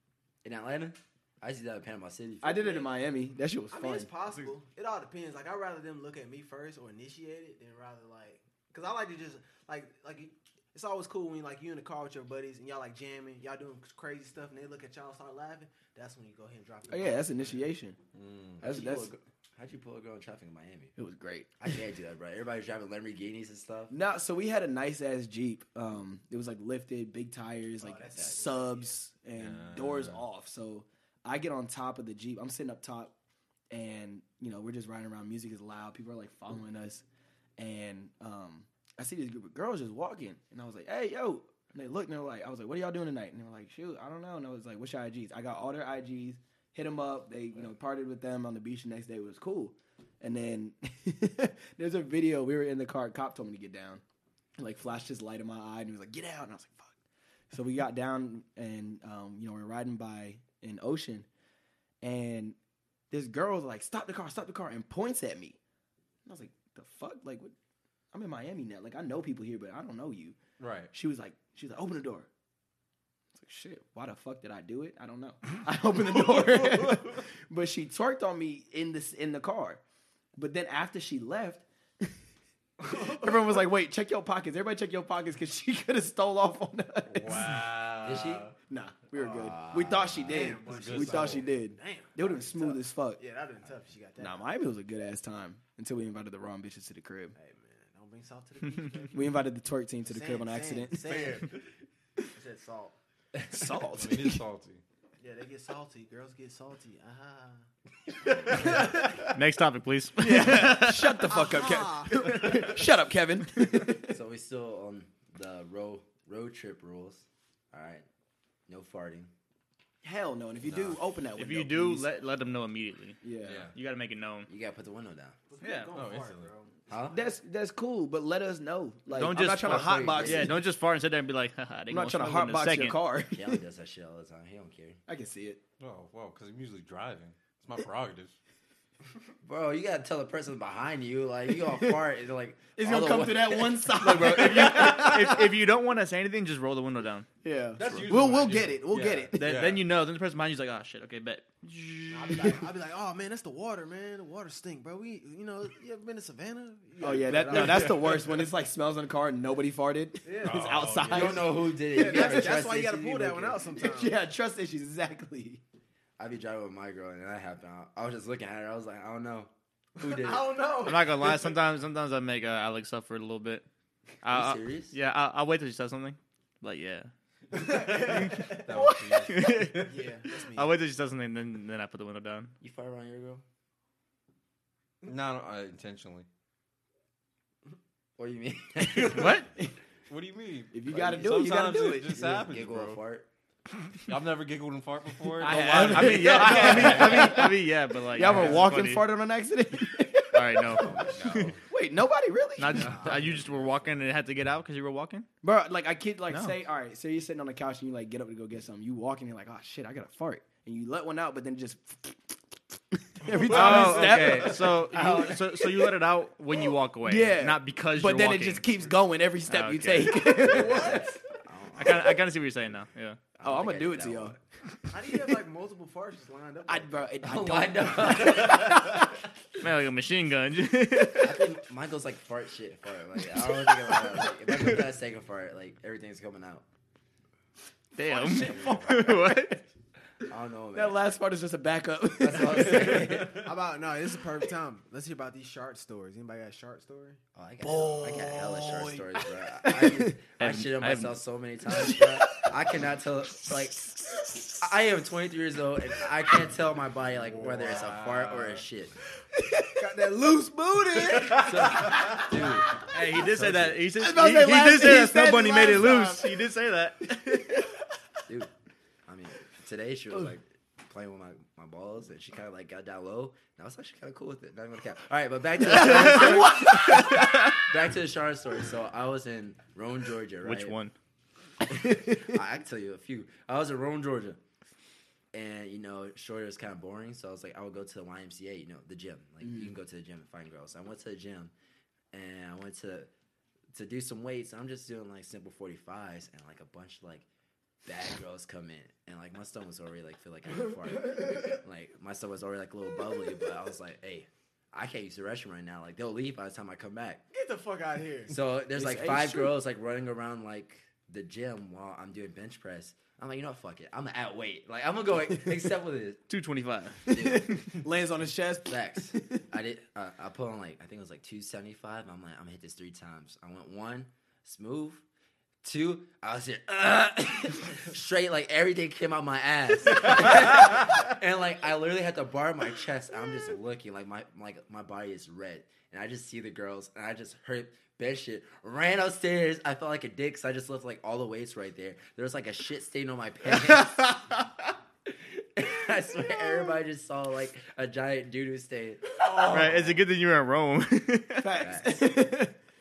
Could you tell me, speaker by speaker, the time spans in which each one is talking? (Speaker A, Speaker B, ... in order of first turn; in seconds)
Speaker A: 0.4-2.5, 18.6-20.9, 21.6-23.9, 88.0-88.5, 89.2-90.6, 114.0-118.0, 118.7-119.3, 120.7-120.9, 124.5-125.4, 126.9-127.2, 129.5-130.6, 133.3-135.0, 139.4-143.9, 161.1-163.6, 166.2-170.5, 174.2-174.9, 182.6-183.4, 188.2-189.3, 192.1-193.3, 200.8-201.6, 202.7-203.8, 214.0-215.4, 220.3-222.2, 223.3-224.4, 227.2-229.1, 231.1-236.6, 238.3-239.0, 240.2-241.0, 242.2-243.5, 247.3-254.0, 254.5-258.9, 261.3-263.8, 269.1-280.7, 281.7-284.4, 285.3-291.5, 292.1-293.1, 293.7-297.2, 297.8-307.2, 308.3-316.2, 317.1-317.7, 318.7-325.0, 325.6-344.4, 345.2-349.7, 351.6-352.3
Speaker B: 2.4-4.1, 16.9-18.0, 18.6-19.1, 21.0-21.5, 23.9-33.1, 33.7-37.0, 37.6-54.0, 54.6-56.9, 57.5-61.3, 62.0-62.5, 63.1-65.6, 66.2-67.5, 68.1-70.4, 70.9-72.3, 73.3-79.8, 80.3-82.1, 82.8-87.6, 88.6-93.2, 94.2-97.3, 99.1-101.4, 103.5-104.4, 110.2-114.2, 120.0-122.1, 123.2-123.7, 127.1-130.6, 131.9-133.6, 135.1-135.6, 141.5-142.0, 142.8-145.6, 147.4-149.5, 157.0-162.6, 163.4-165.6, 177.6-179.7, 188.9-189.7, 190.7-192.2, 195.4-200.9, 201.7-203.1, 205.4-215.2, 217.0-221.1, 223.4-225.2, 226.7-229.2, 238.1-239.5, 240.7-243.5, 247.6-250.2, 251.7-252.5, 253.5-254.5, 259.3-260.0, 261.1-262.2, 263.9-266.4, 267.1-267.7, 275.7-277.4, 281.7-282.4, 308.7-309.5, 317.1-319.4, 351.4-352.5
Speaker C: 2.4-2.9, 3.7-17.6, 27.8-29.0, 82.9-83.4, 90.3-94.4, 97.3-99.4, 100.0-101.6, 102.2-103.0, 105.2-107.6, 108.5-108.9, 111.2-112.8, 125.5-127.3, 152.1-158.2, 160.2-164.2, 170.0-171.6, 179.8-180.7, 220.3-221.2, 224.9-227.0, 238.3-238.8, 243.3-247.2, 259.8-262.2, 307.3-308.4
Speaker D: 18.1-18.6, 29.4-30.2, 70.6-70.9, 76.6-76.9, 87.1-88.5, 90.7-91.5, 103.9-104.8, 123.4-123.8, 125.9-126.5, 135.8-138.4, 147.8-149.9, 157.4-158.4, 160.4-161.4, 178.3-179.8, 185.0-186.3, 190.1-193.0, 194.1-197.3, 198.3-198.6, 213.3-214.2, 257.1-258.6
Speaker E: 109.2-111.3, 121.4-123.2, 123.7-124.5, 125.6-125.9, 129.1-133.0, 143.9-147.3, 147.8-148.1, 149.3-152.6, 170.8-173.6, 174.2-177.1, 177.8-178.6, 179.1-179.9, 180.5-182.5, 189.0-189.5, 195.4-199.1, 200.3-201.5, 202.6-205.3, 206.3-206.6, 213.4-218.8, 219.5-220.3, 221.8-223.2, 229.6-231.4, 237.9-239.6, 250.4-251.2, 262.9-267.7, 275.8-276.3, 276.9-277.5, 280.4-280.9, 316.3-317.3, 349.4-351.6